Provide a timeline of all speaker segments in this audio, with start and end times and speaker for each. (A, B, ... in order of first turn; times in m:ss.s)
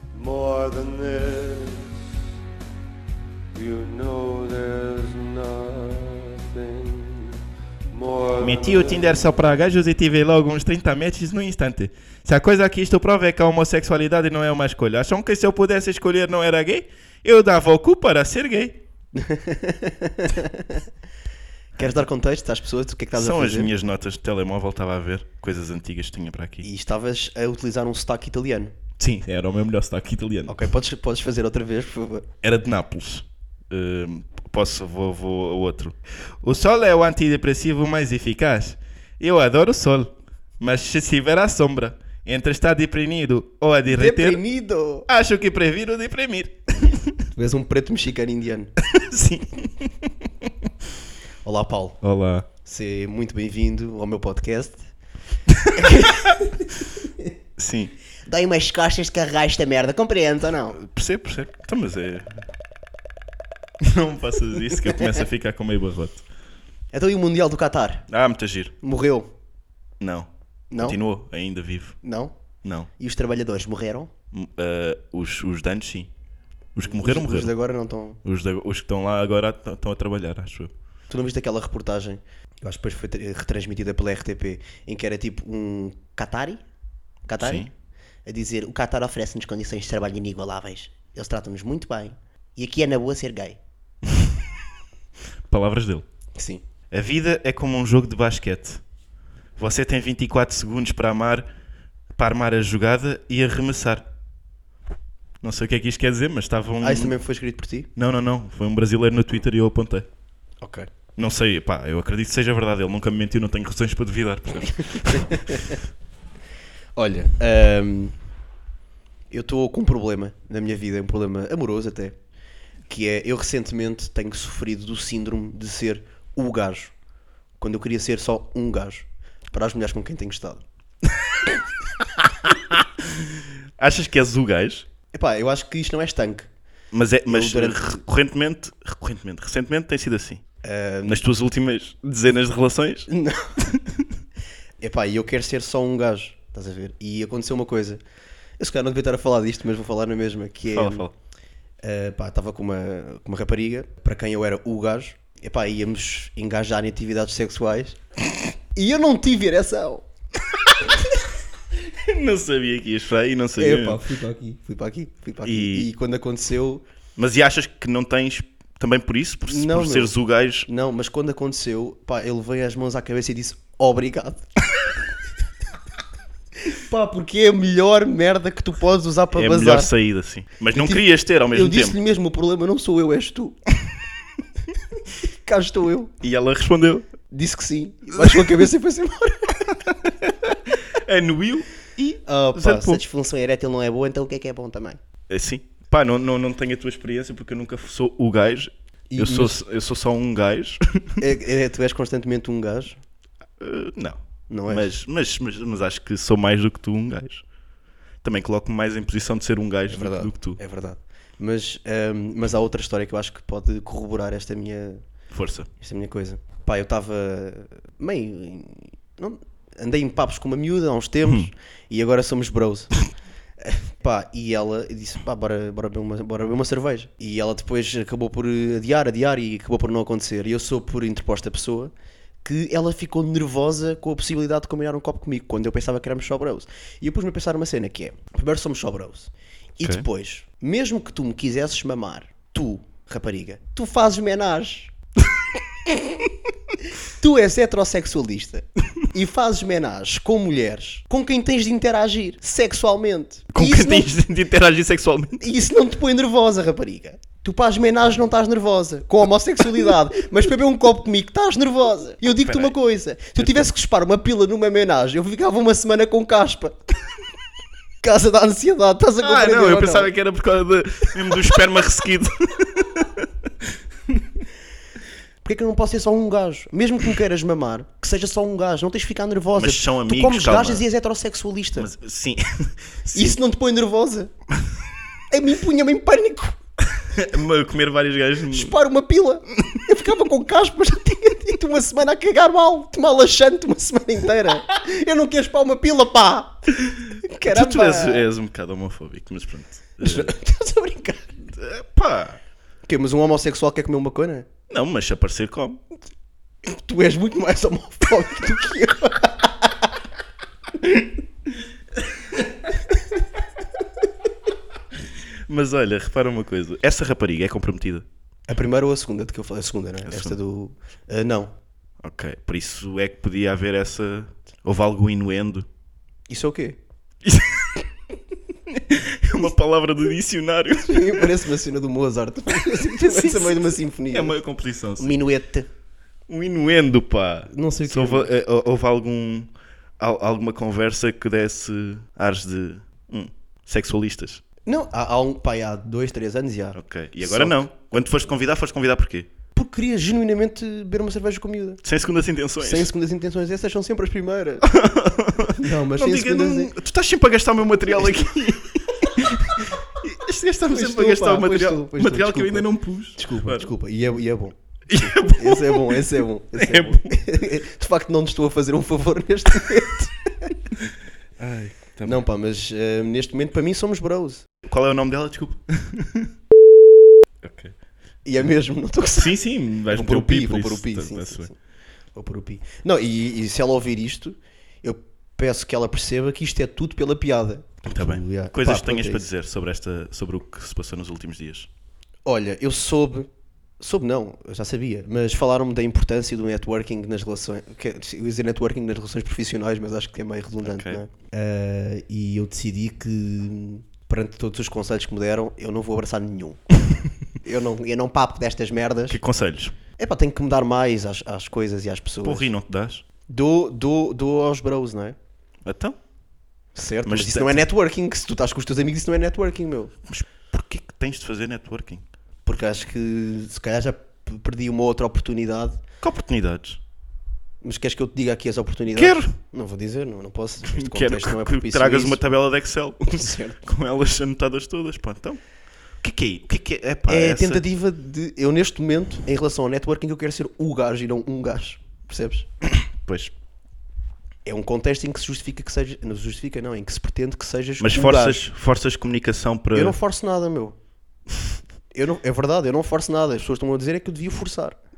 0:00.2-0:01.8 A
0:03.6-0:07.3 A
0:07.9-0:08.5 A
0:08.4-0:18.8 B
0:19.1-0:20.8 C
0:21.8-0:23.7 C
0:23.1-0:26.7 B
0:26.6-0:28.7 C
0:29.0-0:30.6 B
0:30.5-0:32.3 C
0:32.4-0:44.4 B
0:43.9-0:45.1 C
0:45.1-0:47.2 B
0:47.3-0:48.7 C
0:48.8-0:50.7 B
0:51.4-0:52.0 C
0:52.0-0:52.5 B
0:52.6-0:54.9 C
0:55.5-0:56.2 B
0:55.7-0:57.3 C
0:57.6-0:57.9 B
0:58.2-1:00.8 C
1:00.7-1:02.4 B
1:03.8-1:06.2 B
1:06.9-1:08.1 C
1:08.1-1:08.7 B
1:08.8-1:09.3 C
1:10.0-1:12.0 B
1:10.7-1:11.0 C
1:12.0-1:12.3 C
1:12.6-1:12.9 B
1:13.0-1:14.1 C
1:14.3-1:16.1 B
1:16.7-1:17.5 B
1:16.8-1:18.2 C
1:18.2-1:20.7 B
1:21.1-1:26.6 C
1:27.2-1:27.7 C
1:27.4-1:27.7 B
1:28.2-1:33.6 C
1:35.5-1:36.0 B
1:36.4-1:36.6 C
1:36.9-1:38.8 B
1:39.6-1:41.5 B
1:42.1-1:44.0 B
1:45.4-1:47.1 B
1:46.8-1:47.9 C
1:48.0-1:50.1 B
1:50.6-1:50.9 C
1:51.2-1:55.7 B
1:55.1-1:55.8 C
1:57.0-1:58.1 C
1:59.3-2:02.2 C
2:02.9-2:06.9 C
2:07.6-2:10.6 C
2:13.0-2:14.8 B
2:15.1-2:16.5 C
2:16.9-2:20.4 B
2:17.3-2:18.0 C
2:20.6-2:21.2 C
2:21.0-2:24.0 B
2:23.1-2:23.5 C
2:24.8-2:28.0 C
2:28.6-2:31.1 C
2:30.7-2:31.1 B
2:31.8-2:38.0 C
2:38.7-2:40.0 C
2:41.9-2:44.0 B
2:43.6-2:46.8 C
2:45.4-2:45.9 B
2:47.2-2:50.7 B
2:49.5-2:50.2 C
2:50.7-2:54.4 C
2:56.7-2:59.9 C
2:59.3-3:02.0 B
3:00.7-3:03.6 C
3:05.4-3:06.1 C
3:06.2-3:07.1 B
3:07.3-3:09.8 C
3:08.2-3:08.5 B
3:09.7-3:13.0 B
3:12.2-3:15.0 C
3:15.3-3:21.2 B
3:19.1-3:19.6 C
3:21.2-3:23.0 C
3:23.6-3:27.4 B
3:24.5-3:24.9 C
3:28.2-3:30.6 B
3:29.9-3:35.0 C
3:35.3-3:35.7 B
3:35.8-3:43.0 C
3:43.6-3:51.9 C
3:52.4-4:04.9 C
4:07.2-4:14.1 C
4:13.5-4:15.4 B
4:15.4-4:26.8 C
4:22.4-4:22.8 B
4:23.4-4:23.6 B
4:28.0-4:30.1 C
4:29.2-4:33.3 B
4:35.4-4:41.9 C
4:39.5-4:40.8 B
4:41.7-4:43.4 B
4:43.1-4:44.3 C
4:45.3-4:46.6 C
4:46.9-4:48.7 B
4:48.5-4:56.7 C
4:56.8-5:00.3 B
4:57.2-4:58.2 C
5:00.0-5:01.4 C
5:01.5-5:02.4 B
5:02.8-5:04.4 C
5:04.7-5:05.8 B
5:06.7-5:09.9 C
5:15.1-5:18.0 B
5:18.5-5:21.5 C
5:20.0-5:20.4 B
5:22.0-5:25.7 B
5:26.3-5:26.8 C
5:27.2-5:27.7 B
5:28.7-5:31.3 B
5:30.8-5:34.4 C
5:32.6-5:35.1 B
5:35.0-5:35.7 C
5:36.3-5:44.4 B
5:37.5-5:38.3 C
5:44.6-5:47.6 C
5:46.7-5:49.3 B
5:49.5-5:51.8 C
5:51.8-5:52.9 B
5:52.6-5:54.7 C
5:54.6-6:03.7 B
5:55.6-5:56.7 C
6:00.7-6:10.5 C
6:04.9-6:06.0 B
6:06.5-6:07.2 B
6:11.4-6:12.2 B
6:12.0-6:14.4 C
6:14.6-6:16.3 B
6:17.4-6:17.8 B
6:18.2-6:19.4 C
6:19.2-6:21.5 B
6:19.9-6:21.5 C
6:22.1-6:29.3 C
6:27.8-6:31.7 B
6:32.2-6:46.6 C
6:40.6-6:41.0 B
6:47.4-6:49.2 C
6:49.1-6:49.7 B
6:50.0-6:52.5 C
6:52.2-6:53.0 B
6:53.3-6:55.2 C
6:55.6-6:56.0 B
6:56.7-6:59.9 C
6:57.0-6:57.6 B
7:00.1-7:02.0 B
7:02.4-7:05.8 C
7:06.0-7:06.8 B
7:07.6-7:12.2 C
7:08.9-7:09.3 B
7:10.6-7:15.4 B
7:13.0-7:13.6 C
7:16.0-7:17.6 B
7:17.1-7:22.5 C
7:22.8-7:23.3 B
7:24.4-7:28.4 C
7:27.8-7:30.0 B
7:29.7-7:30.8 C
7:31.9-7:34.8 C